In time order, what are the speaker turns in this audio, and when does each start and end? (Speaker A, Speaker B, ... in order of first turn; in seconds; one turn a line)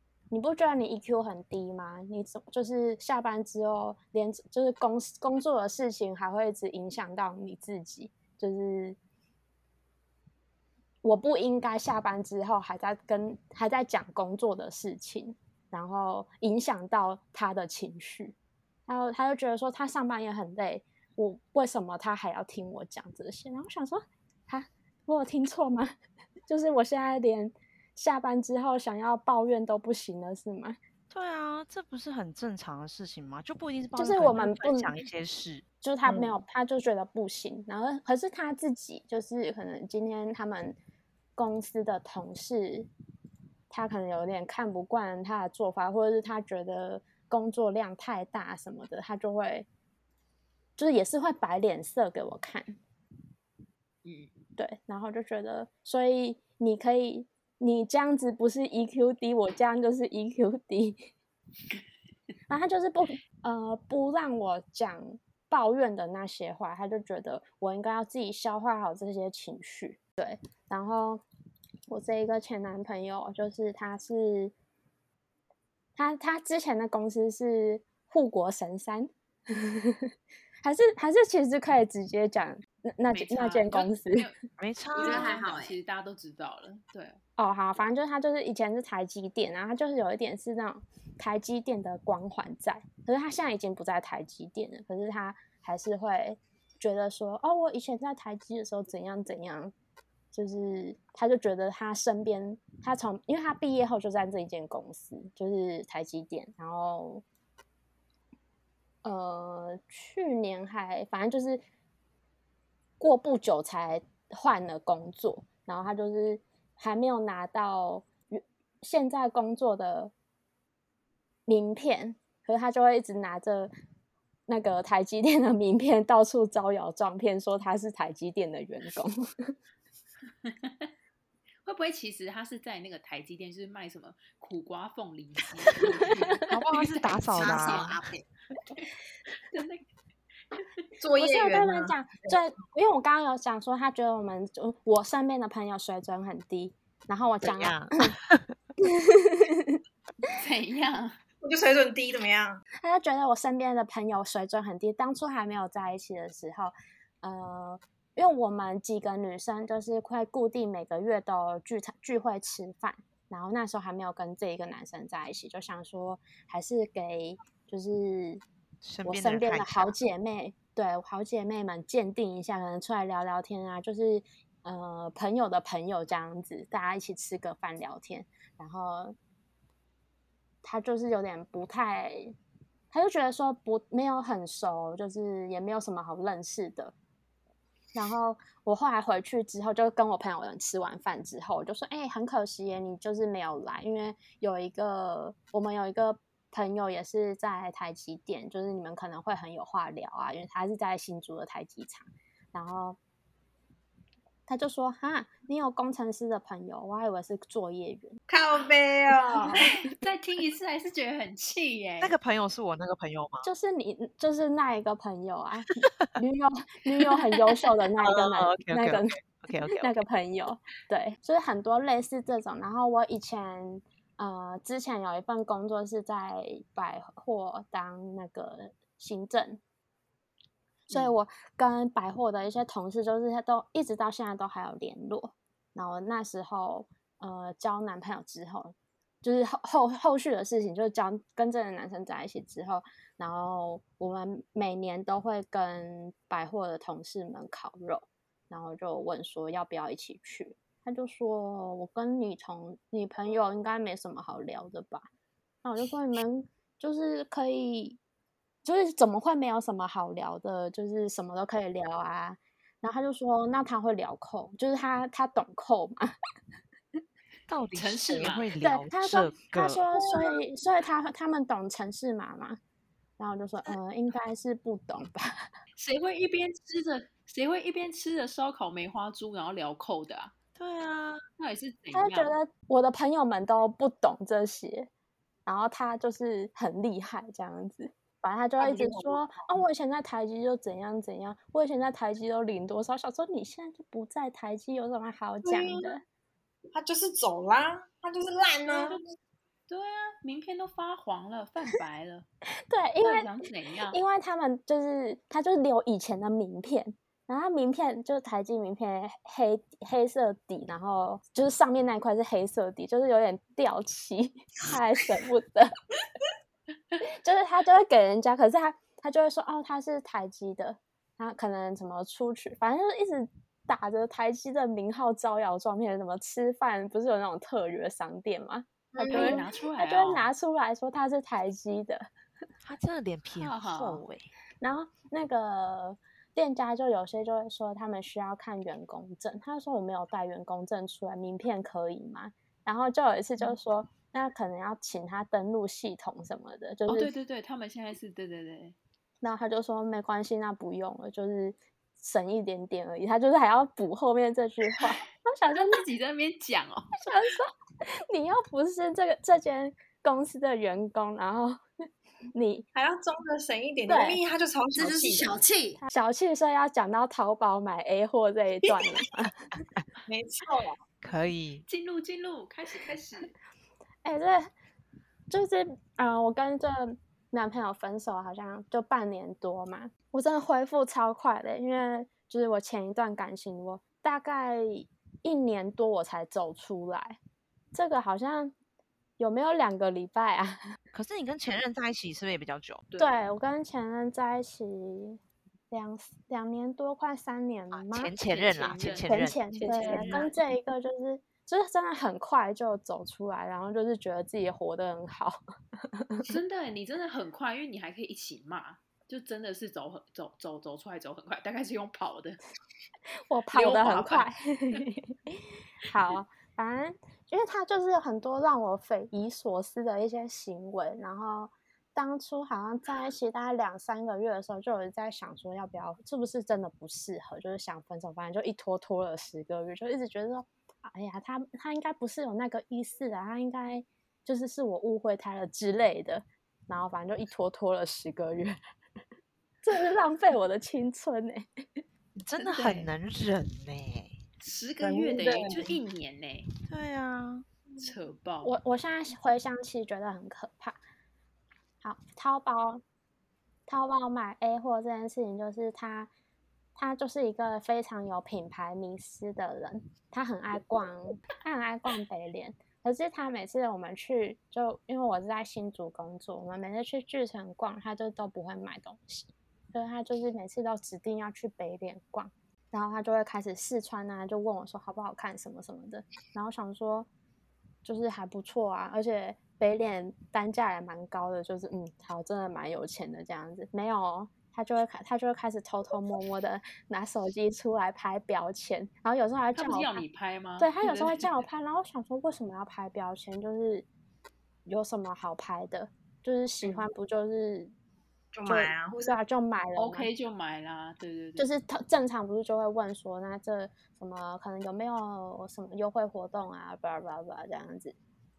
Speaker A: 0.3-9.0
Speaker A: 11.0-18.3
Speaker A: 18.9-25.9
Speaker A: 26.5-30.8
Speaker B: 31.1-35.6
Speaker A: 34.0-34.9
Speaker A: 35.8-40.8
Speaker C: 36.0-36.4
Speaker A: 41.4-42.9
Speaker A: 43.7-49.7
Speaker A: 50.8-52.8
Speaker D: 54.0-54.3
Speaker A: 54.6-61.1
Speaker A: 62.5-71.2
Speaker A: 71.9-74.5
Speaker A: 76.0-80.1
Speaker A: 80.6-84.3
Speaker D: 83.1-84.3
Speaker B: 84.6-85.4
Speaker D: 84.9-87.2
Speaker E: 85.0-85.8
Speaker A: 87.4-99.7
Speaker A: 100.3-107.2
Speaker A: 109.0-111.6
Speaker A: 113.0-120.1
Speaker A: 121.5-123.7
Speaker A: 124.5-129.5
Speaker D: 130.4-130.9
Speaker D: 131.6-136.5
Speaker B: 136.5-137.9
Speaker E: 136.9-138.2
Speaker D: 137.3-137.8
Speaker D: 139.5-139.8
Speaker C: 141.0-142.4
Speaker A: 141.2-148.1
Speaker B: 147.4-148.6
Speaker A: 148.8-149.8
Speaker D: 150.4-151.2
Speaker C: 151.4-152.6
Speaker A: 152.8-168.4
Speaker B: 168.8-169.9
Speaker A: 169.0-179.2
Speaker A: 180.6-182.3
Speaker A: 182.9-186.9
Speaker A: 187.9-203.0
Speaker A: 204.5-208.1
Speaker C: 208.3-209.6
Speaker D: 209.5-212.1
Speaker B: 212.0-213.5
Speaker A: 213.4-219.2
Speaker B: 218.0-219.9
Speaker A: 219.7-229.6
Speaker A: 230.9-255.1
Speaker A: 255.6-258.0
Speaker A: 258.6-266.1
Speaker B: 267.5-269.8
Speaker D: 267.7-268.5
Speaker A: 268.6-272.6
Speaker C: 269.9-270.4
Speaker A: 273.2-275.4
Speaker D: 275.8-280.3
Speaker B: 280.6-281.2
Speaker D: 281.4-282.3
Speaker A: 281.9-284.9
Speaker A: 285.4-296.0
Speaker C: 288.6-289.6
Speaker C: 295.4-296.0
Speaker C: 296.7-299.0
Speaker D: 299.7-302.3
Speaker A: 302.7-303.3
Speaker D: 303.0-304.0
Speaker A: 303.9-315.7
Speaker A: 317.0-332.1
Speaker C: 328.9-329.4
Speaker D: 329.1-330.3
Speaker B: 332.6-334.3
Speaker D: 333.4-334.0
Speaker A: 334.6-347.1
Speaker D: 346.9-348.8
Speaker A: 349.2-355.8
Speaker D: 355.5-356.9
Speaker A: 357.0-361.6
Speaker A: 362.3-362.6
Speaker C: 362.7-365.4
Speaker A: 363.9-364.2
Speaker E: 364.7-365.8
Speaker A: 365.8-369.4
Speaker C: 370.1-370.8
Speaker B: 371.0-371.6
Speaker D: 371.7-373.3
Speaker A: 374.0-374.5
Speaker A: 375.3-387.2
Speaker A: 387.7-388.5
Speaker A: 389.2-390.6
Speaker B: 390.9-392.8
Speaker D: 392.9-393.2
Speaker A: 393.0-395.2
Speaker A: 395.7-398.1
Speaker B: 397.7-400.2
Speaker D: 398.2-400.3
Speaker A: 399.0-405.4
Speaker A: 405.9-406.2
Speaker D: 406.3-412.4
Speaker A: 413.3-438.5
Speaker D: 413.5-414.3
Speaker A: 439.6-441.8
Speaker B: 442.2-444.2
Speaker D: 442.4-442.9
Speaker D: 444.4-446.5
Speaker C: 444.8-445.7
Speaker B: 446.7-447.4
Speaker D: 447.8-448.5
Speaker A: 448.4-450.8
Speaker A: 451.8-452.8
Speaker A: 453.7-456.1
Speaker A: 456.8-477.1
Speaker A: 477.8-490.0
Speaker D: 489.6-491.4
Speaker A: 490.6-493.9
Speaker A: 494.6-497.7
Speaker C: 498.3-499.2
Speaker A: 498.4-500.1
Speaker D: 499.8-501.5
Speaker A: 501.4-507.9